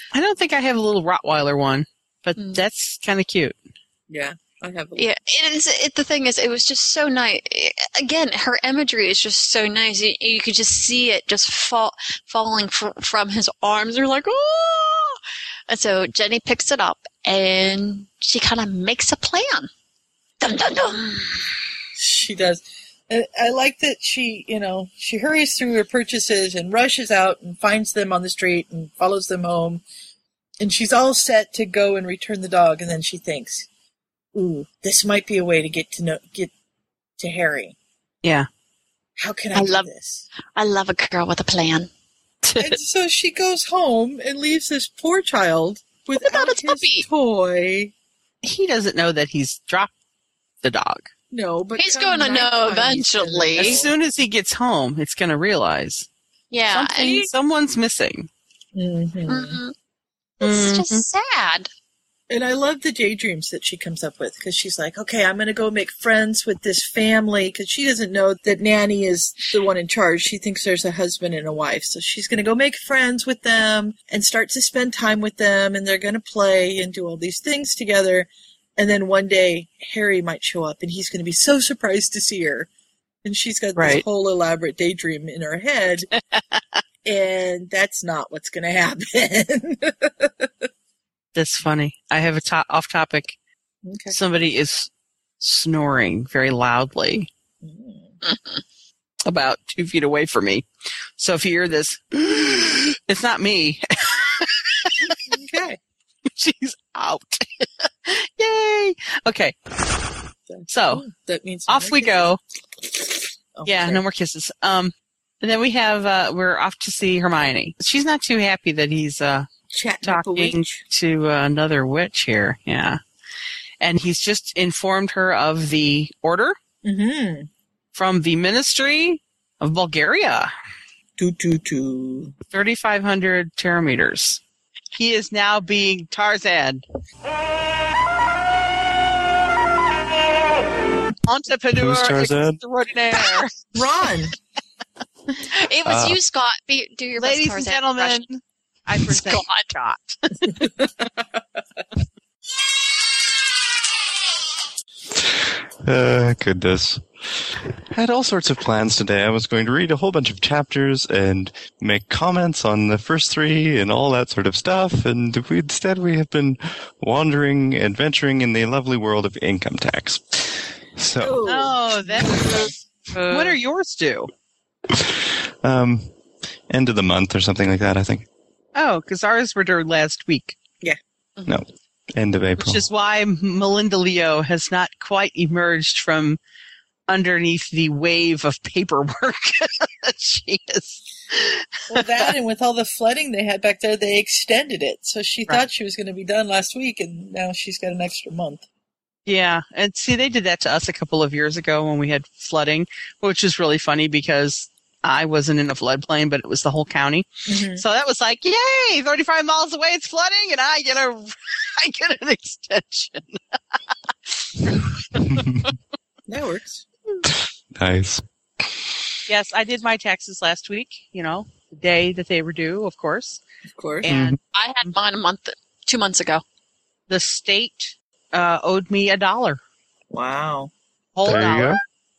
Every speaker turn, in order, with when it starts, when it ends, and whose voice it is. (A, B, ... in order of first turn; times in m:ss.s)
0:00.1-0:03.6 A
0:02.4-0:02.6 B
0:04.1-0:05.1 C
0:05.0-0:19.7 B
0:20.4-0:21.6 B
0:21.9-0:29.8 C
0:30.6-0:33.7 C
0:34.3-0:36.5 C
0:37.2-0:37.8 C
0:38.2-0:38.5 A
0:39.2-0:40.2 C
0:39.5-0:39.9 B
0:40.6-0:41.9 B
0:42.4-0:42.7 B
0:42.6-0:47.9 C
0:46.2-0:47.1 B
0:48.4-0:49.9 A
0:50.6-0:51.1 A
0:51.3-0:53.9 C
0:51.8-0:53.8 B
0:53.6-0:56.1 A
0:56.5-0:57.3 B
0:56.7-0:58.3 A
0:58.7-0:59.6 C
0:59.3-0:59.7 B
1:00.4-1:01.7 B
1:00.4-1:01.0 A
1:02.3-1:22.7 C
1:23.2-1:26.1 C
1:23.8-1:24.0 A
1:26.4-1:26.8 A
1:27.0-1:30.7 C
1:31.3-1:33.4 A
1:33.8-1:34.1 C
1:34.1-1:37.3 A
1:37.6-1:38.1 C
1:38.2-1:38.6 B
1:39.2-1:40.6 A
1:41.2-1:45.2 A
1:45.3-1:45.8 C
1:46.3-1:49.6 A
1:50.5-1:52.3 C
1:50.7-1:51.0 A
1:51.7-1:52.4 A
1:52.8-1:54.0 C
1:53.6-1:59.5 A
1:59.7-2:00.8 C
2:00.0-2:03.0 A
2:03.8-2:06.6 A
2:06.8-2:07.5 C
2:07.9-2:10.5 A
2:11.2-2:12.3 C
2:12.5-2:14.4 A
2:15.0-2:16.8 A
2:21.3-2:23.5 A
2:21.7-2:22.6 D
2:23.7-2:24.3 C
2:25.5-2:28.2 B
2:25.8-2:26.2 D
2:27.2-2:30.5 A
2:29.0-2:29.7 B
2:30.6-2:31.2 C
2:35.8-2:37.0 D
2:37.9-2:51.4 D
2:51.2-2:52.7 C
2:51.4-2:52.7 A
2:53.1-2:53.6 B
2:53.3-2:54.3 A
2:54.9-2:56.1 D
2:56.7-2:58.2 D
2:58.7-3:00.6 A
3:01.5-3:02.8 D
3:02.6-3:06.4 A
3:07.1-3:12.3 A
3:11.9-3:18.6 C
3:19.3-3:33.4 A
3:27.4-3:27.8 C
3:34.3-3:35.4 A
3:36.3-3:36.8 C
3:37.8-3:38.2 D
3:39.3-3:43.4 A
3:43.7-3:44.0 C
3:44.0-3:44.4 A
3:44.0-3:44.4 D
3:44.5-3:46.4 B
3:47.1-3:49.6 A
3:50.1-3:50.7 C
3:51.2-3:51.8 A
3:51.2-3:51.8 D